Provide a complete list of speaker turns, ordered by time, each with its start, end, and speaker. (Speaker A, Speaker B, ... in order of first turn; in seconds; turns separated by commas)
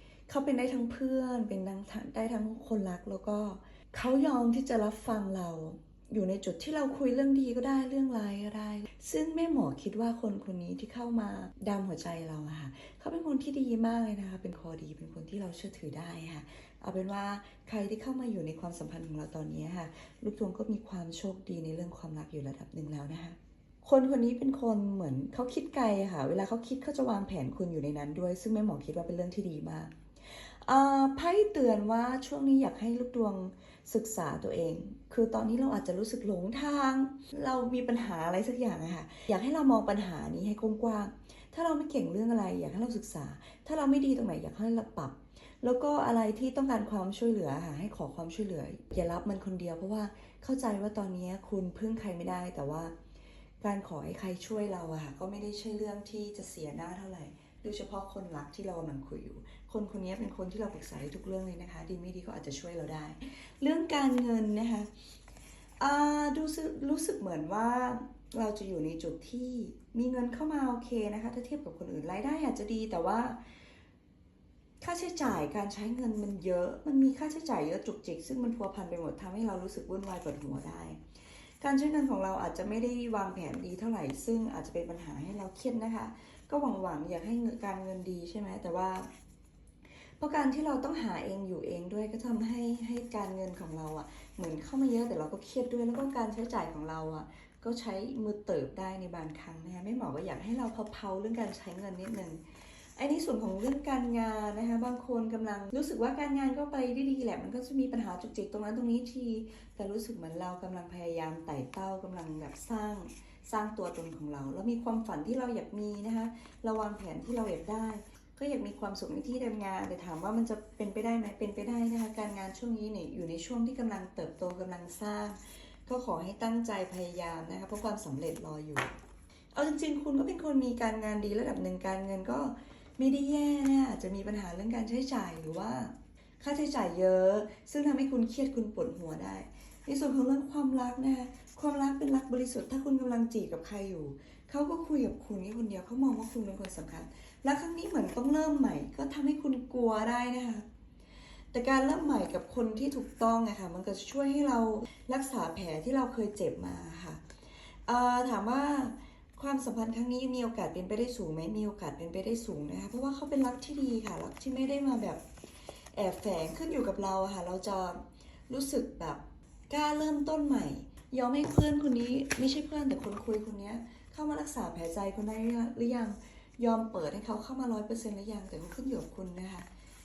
Speaker A: 0.3-52.9, Speaker A: 53.6-64.9, Speaker A: 65.8-73.4, Speaker A: 74.8-81.0, Speaker A: 81.6-89.1, Speaker A: 90.2-102.4, Speaker A: 103.0-128.9, Speaker A: 129.5-150.7, Speaker A: 151.5-157.2, Speaker A: 157.8-165.2, Speaker A: 165.9-179.7